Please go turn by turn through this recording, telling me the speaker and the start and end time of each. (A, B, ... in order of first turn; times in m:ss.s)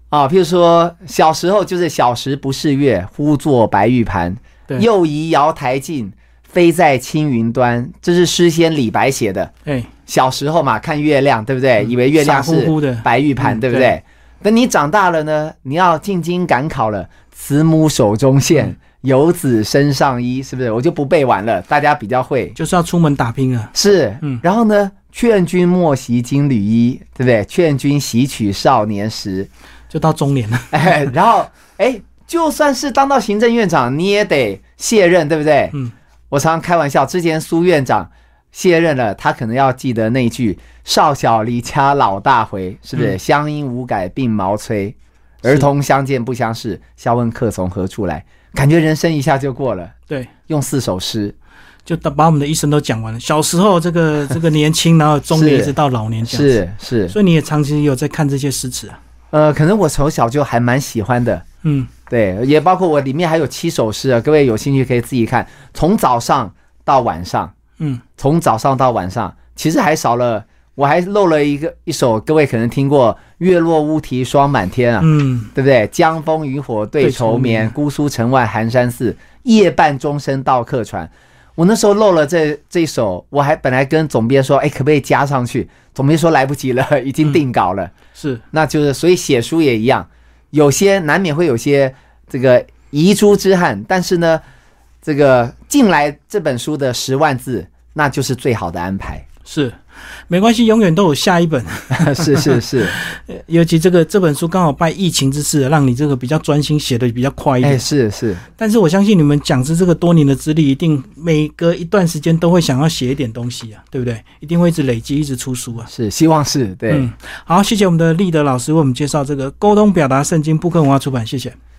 0:00.1-0:09.5 A
0:09.6-0:09.9 B
0:10.1-0:22.6 A
0:12.1-0:13.9 B
0:22.6-0:24.4 B
0:23.7-0:29.5 A
0:29.9-0:31.0 B
0:30.7-0:35.7 A
0:36.3-0:49.9 A
0:50.5-0:51.3 A
0:51.8-0:59.0 B
0:55.3-0:57.1 A
0:59.3-1:01.4 A
1:01.6-1:01.9 B
1:02.1-1:07.5 A
1:08.2-1:27.9 A
1:15.0-1:15.5 B
1:17.0-1:17.7 B
1:28.2-1:28.4 B
1:28.5-1:34.4 A
1:35.0-1:39.2 A
1:39.4-1:39.8 B
1:40.3-1:47.8 B
1:41.9-1:43.0 A
1:47.6-1:48.4 A
1:48.6-1:55.9 B
1:55.9-1:57.1 A
1:56.9-2:01.6 B